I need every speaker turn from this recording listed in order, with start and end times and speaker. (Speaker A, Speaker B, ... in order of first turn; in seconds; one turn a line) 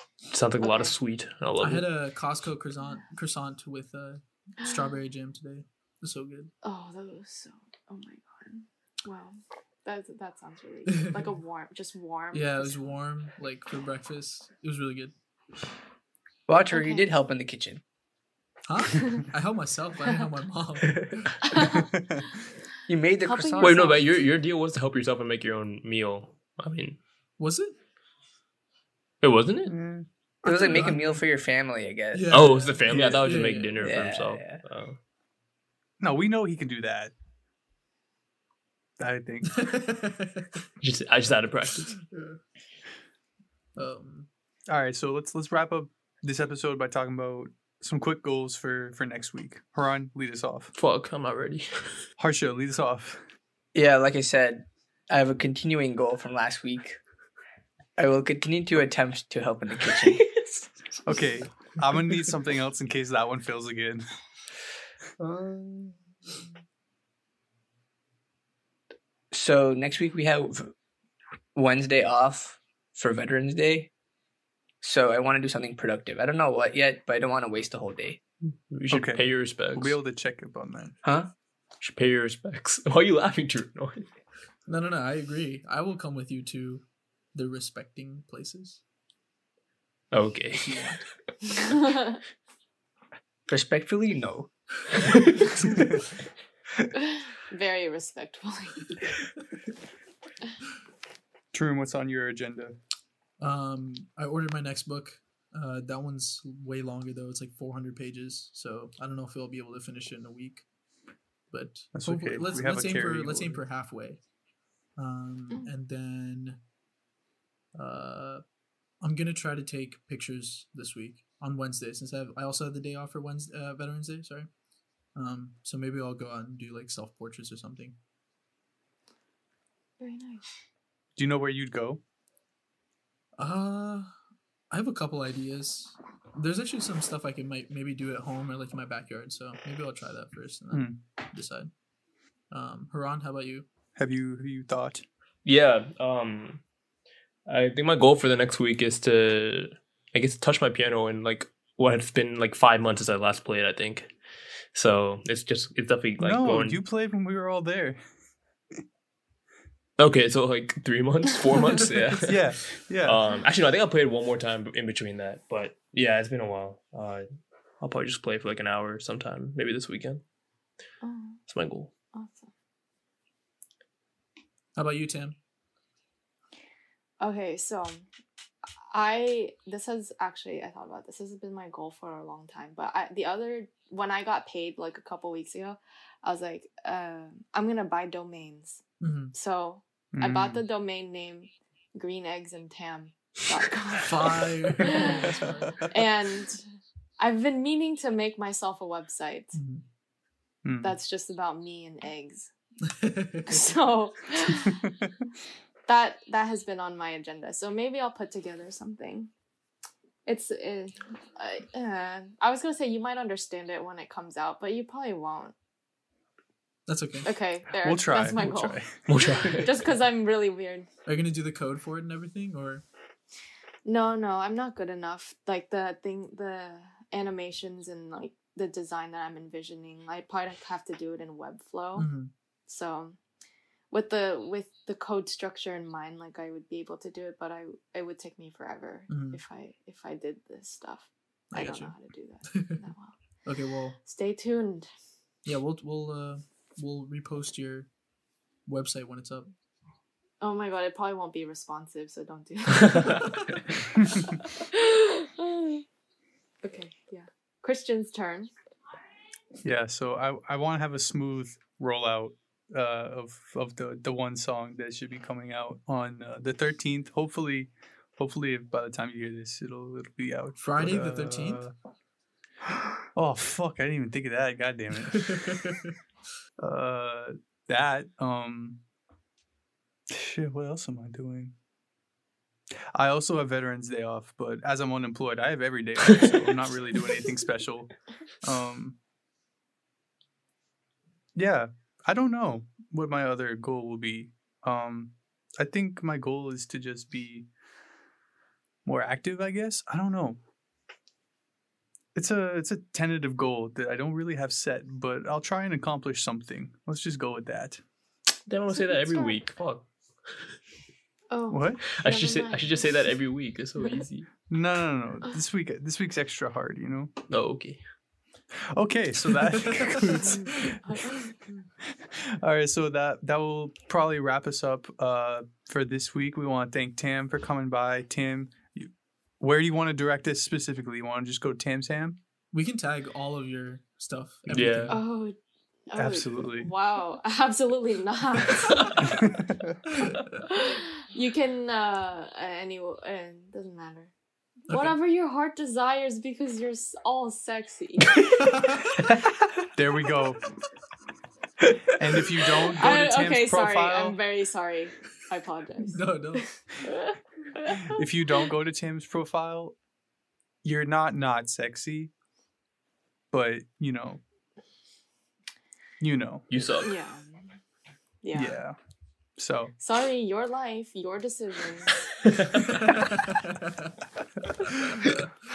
Speaker A: 0.3-1.9
Speaker B: 0.6-1.0
Speaker C: 1.6-6.5
Speaker B: 6.6-13.0
Speaker C: 10.9-11.3
Speaker C: 12.3-15.1
Speaker D: 16.5-17.8
Speaker B: 16.7-17.1
Speaker C: 18.7-21.5
Speaker B: 21.5-21.9
Speaker E: 21.6-22.3
Speaker D: 22.9-24.0
Speaker B: 23.2-24.0
Speaker A: 23.6-27.0
Speaker C: 27.4-27.8
Speaker A: 29.2-29.8
Speaker E: 29.7-30.1
Speaker D: 30.4-32.4
Speaker C: 30.5-31.2
Speaker C: 32.1-33.8
Speaker A: 32.3-35.0
Speaker E: 32.9-33.2
Speaker D: 33.8-34.6
Speaker E: 36.0-37.1
Speaker E: 39.0-39.7
Speaker C: 39.5-40.6
Speaker A: 40.8-42.0
Speaker C: 41.9-42.4
Speaker C: 43.8-44.3
Speaker E: 44.7-50.7
Speaker A: 50.8-52.0
Speaker E: 52.2-53.2
Speaker D: 53.7-57.0
Speaker D: 58.0-60.4
Speaker E: 61.0-64.0
Speaker A: 65.2-66.0
Speaker D: 69.3-70.7
Speaker D: 71.5-73.9
Speaker D: 74.8-78.2
Speaker A: 78.7-80.0
Speaker E: 78.9-81.0
Speaker D: 81.0-81.3
Speaker A: 81.8-84.1
Speaker C: 84.7-88.8
Speaker A: 90.1-91.0
Speaker C: 90.6-91.0
Speaker B: 91.4-92.2
Speaker D: 93.5-94.5
Speaker C: 95.6-95.9
Speaker B: 97.0-99.0
Speaker E: 101.5-102.8
Speaker C: 103.4-110.7
Speaker C: 111.5-114.2
Speaker E: 112.0-113.6
Speaker C: 115.0-116.6
Speaker C: 117.7-118.4
Speaker C: 119.0-124.5
Speaker C: 125.2-128.0
Speaker B: 130.0-130.5
Speaker E: 131.2-132.0
Speaker C: 133.4-134.1
Speaker C: 134.7-141.7
Speaker E: 140.7-141.0
Speaker C: 142.5-143.7
Speaker E: 144.0-145.0
Speaker A: 145.4-146.6
Speaker A: 147.5-154.1
Speaker A: 154.7-156.8
Speaker E: 156.2-158.0
Speaker A: 160.0-167.3
Speaker E: 162.1-163.2
Speaker A: 167.8-170.2
Speaker B: 171.0-171.4
Speaker A: 171.5-171.9
Speaker B: 172.1-172.5
Speaker C: 174.8-175.4
Speaker B: 177.2-178.1
Speaker B: 178.8-196.6
Speaker C: 189.0-189.3
Speaker E: 190.1-190.6
Speaker C: 194.0-196.0
Speaker B: 197.2-199.6
Speaker C: 199.6-199.8
Speaker E: 200.7-200.9
Speaker B: 200.8-202.5
Speaker C: 202.9-203.7
Speaker B: 203.5-204.9
Speaker B: 205.9-209.3
Speaker B: 210.3-215.5
Speaker C: 216.9-217.3
Speaker B: 217.2-220.9
Speaker E: 217.8-219.0
Speaker A: 219.1-219.7
Speaker C: 221.1-222.8
Speaker B: 223.8-232.1
Speaker C: 232.0-232.3
Speaker B: 232.7-233.2
Speaker B: 233.9-243.2
Speaker C: 239.1-239.4
Speaker C: 241.5-242.9
Speaker C: 243.4-244.0
Speaker B: 244.0-244.9
Speaker C: 245.4-247.9
Speaker C: 248.7-249.5
Speaker B: 250.4-253.2
Speaker B: 254.2-255.8
Speaker B: 256.6-258.5
Speaker E: 259.6-271.7
Speaker C: 270.6-271.7
Speaker E: 272.6-275.6
Speaker C: 275.1-275.9
Speaker E: 276.6-278.8
Speaker E: 280.1-281.6
Speaker E: 282.9-289.0
Speaker E: 291.4-297.5
Speaker E: 298.9-300.4
Speaker E: 302.1-307.8
Speaker A: 308.5-309.9
Speaker B: 308.8-309.4
Speaker B: 311.3-313.1
Speaker E: 311.5-312.0
Speaker A: 311.9-314.3
Speaker E: 314.5-317.1
Speaker A: 317.3-317.8
Speaker E: 318.7-321.0
Speaker C: 319.6-320.6
Speaker B: 320.3-321.4
Speaker E: 322.0-332.2
Speaker C: 332.5-335.0
Speaker A: 334.5-335.0
Speaker B: 334.9-335.4
Speaker B: 335.9-338.9
Speaker E: 335.9-336.7
Speaker E: 339.0-339.8
Speaker C: 339.9-340.4
Speaker B: 340.5-344.1
Speaker C: 344.7-345.0
Speaker B: 344.7-348.2
Speaker C: 348.4-349.1
Speaker E: 349.8-350.5
Speaker E: 352.0-354.2
Speaker B: 352.8-357.9
Speaker C: 355.8-356.6
Speaker E: 357.8-359.8
Speaker E: 360.6-362.1
Speaker E: 363.3-364.2
Speaker E: 366.0-366.4
Speaker A: 366.5-366.9
Speaker B: 366.8-367.6
Speaker B: 368.2-368.6
Speaker E: 368.3-368.8
Speaker E: 369.4-369.7
Speaker B: 369.8-372.0
Speaker A: 372.3-372.6
Speaker C: 372.7-373.9
Speaker C: 374.6-375.3